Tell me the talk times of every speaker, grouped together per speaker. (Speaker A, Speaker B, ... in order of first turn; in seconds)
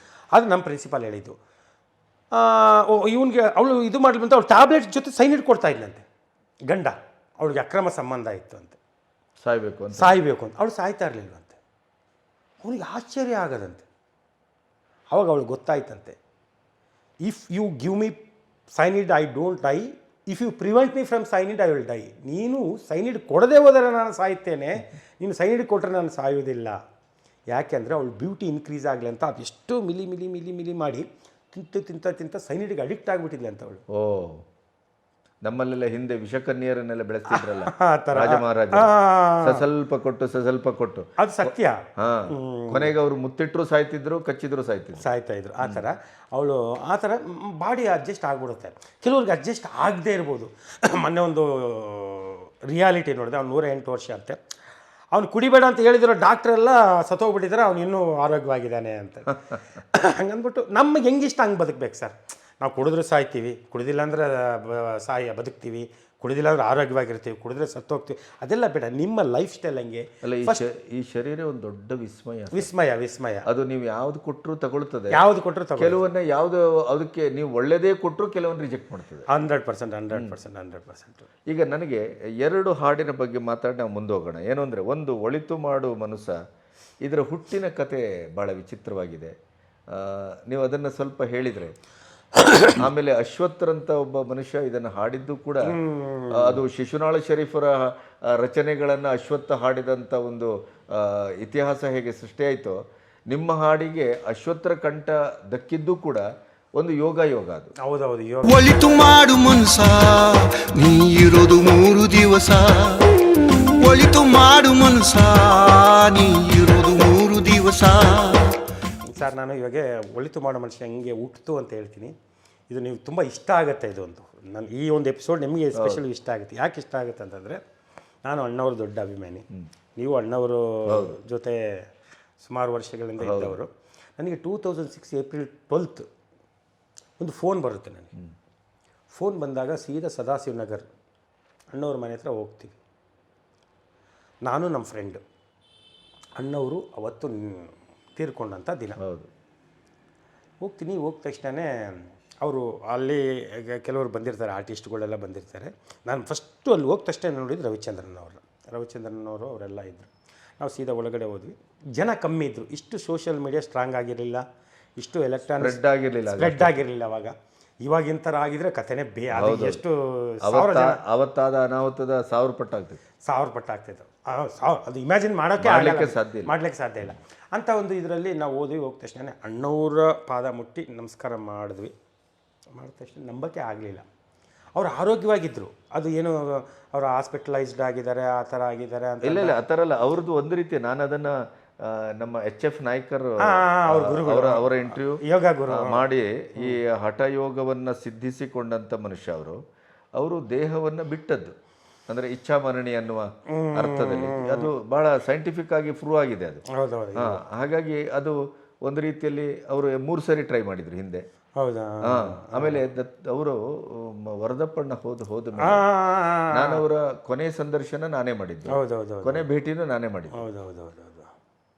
Speaker A: 0.3-1.3, 2.3-6.0, 6.7-8.8, 9.9-11.6, 12.6-13.8, 15.1-16.2, 17.2-18.2, 18.7-26.8, 27.5-33.8, 37.3-39.6, 41.2-42.9, 45.0-54.4, 55.1-70.6, 72.5-73.5, 75.1-76.0, 79.3-81.3, 95.6-96.6, 107.8-108.5, 119.0-122.1, 122.7-127.6, 128.2-131.9, 132.4-136.1, 137.2-138.1, 139.1-140.9, 141.7-142.8, 144.4-145.2, 146.4-149.0, 150.6-164.4, 165.0-165.8, 166.3-171.0, 173.2-181.9, 182.8-184.0, 184.8-189.6, 193.4-196.0, 203.5-204.7, 206.7-207.4, 211.6-212.8, 215.6-216.8, 218.7-219.4, 220.3-221.3
Speaker B: 9.4-10.2, 33.9-34.4, 35.4-45.0, 70.2-72.7, 73.5-75.2, 75.8-79.3, 81.5-86.4, 87.0-89.3, 89.9-91.7, 92.7-95.8, 96.3-106.2, 106.8-107.7, 125.8-126.0, 130.9-131.2, 133.2-133.6, 149.0-149.3, 165.6-166.8, 169.3-169.8, 170.4-173.0, 175.6-176.5, 189.2-199.6, 200.2-201.5, 202.1-206.6, 207.2-211.2, 212.0-215.8, 216.5-220.4
Speaker C: 108.4-118.6